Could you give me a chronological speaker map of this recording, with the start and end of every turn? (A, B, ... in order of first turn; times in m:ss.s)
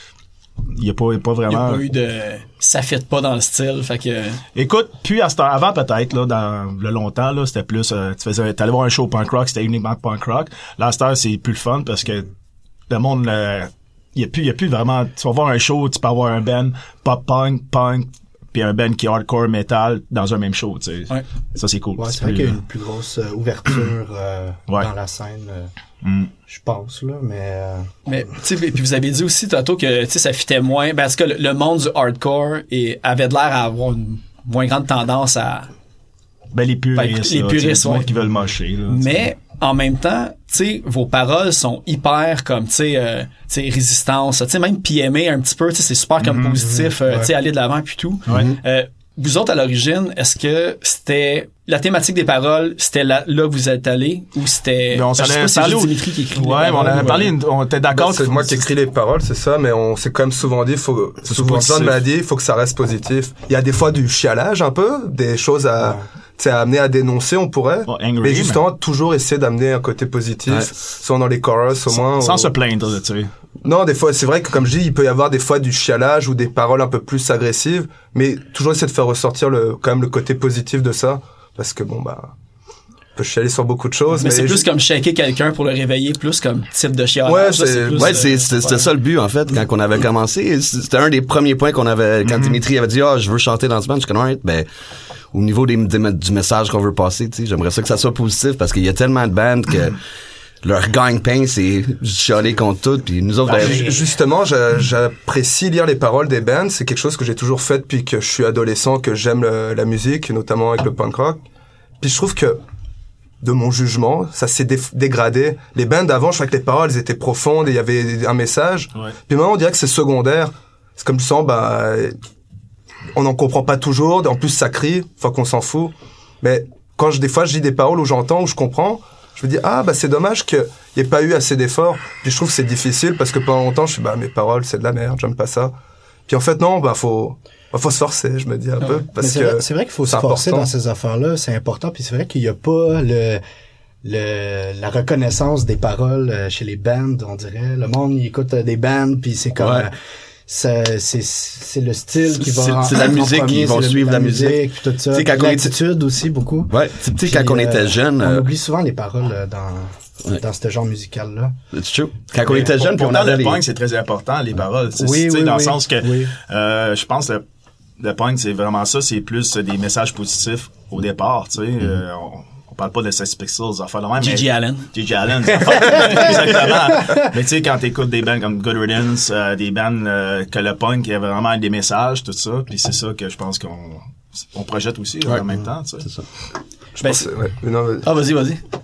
0:00.7-0:01.8 A
0:01.5-0:04.4 B
0:04.5-0:12.3 A
0:12.9-0:22.6 A
0:22.0-0:25.7 C
0:26.0-0:26.3 A
0:26.5-0:27.9 C
0:28.0-0:35.7 B
0:36.5-0:39.3 A
0:36.9-0:38.1 B
0:38.9-0:57.3 B
0:46.2-0:46.6 A
0:46.7-0:47.3 C
0:54.9-0:58.7 A
0:57.9-1:12.5 D
1:01.2-1:02.0 A
1:07.9-1:08.6 A
1:11.9-1:13.3 A
1:13.6-1:22.3 D
1:23.2-1:24.7 D
1:24.1-1:28.9 B
1:27.2-1:28.2 D
1:27.9-1:34.6 E
1:35.3-1:40.0 E
1:40.6-1:43.9 E
1:43.4-1:43.8 A
1:43.5-1:51.4 D
1:52.0-1:52.6 D
1:53.4-2:02.2 D
2:03.1-2:15.7 D
2:16.3-2:20.7 D
2:19.1-2:23.4 C
2:24.0-2:29.9 C
2:29.6-2:29.9 E
2:30.5-2:41.6 C
2:32.4-2:35.7 E
2:36.7-2:38.5 E
2:41.7-2:43.6 E
2:42.4-2:47.4 A
2:45.0-2:46.3 C
2:48.0-3:06.0 A
2:54.2-2:54.9 B
2:55.9-2:57.3 C
2:55.9-2:56.2 B
3:07.0-3:08.1 D
3:07.0-3:07.3 B
3:08.0-3:08.6 B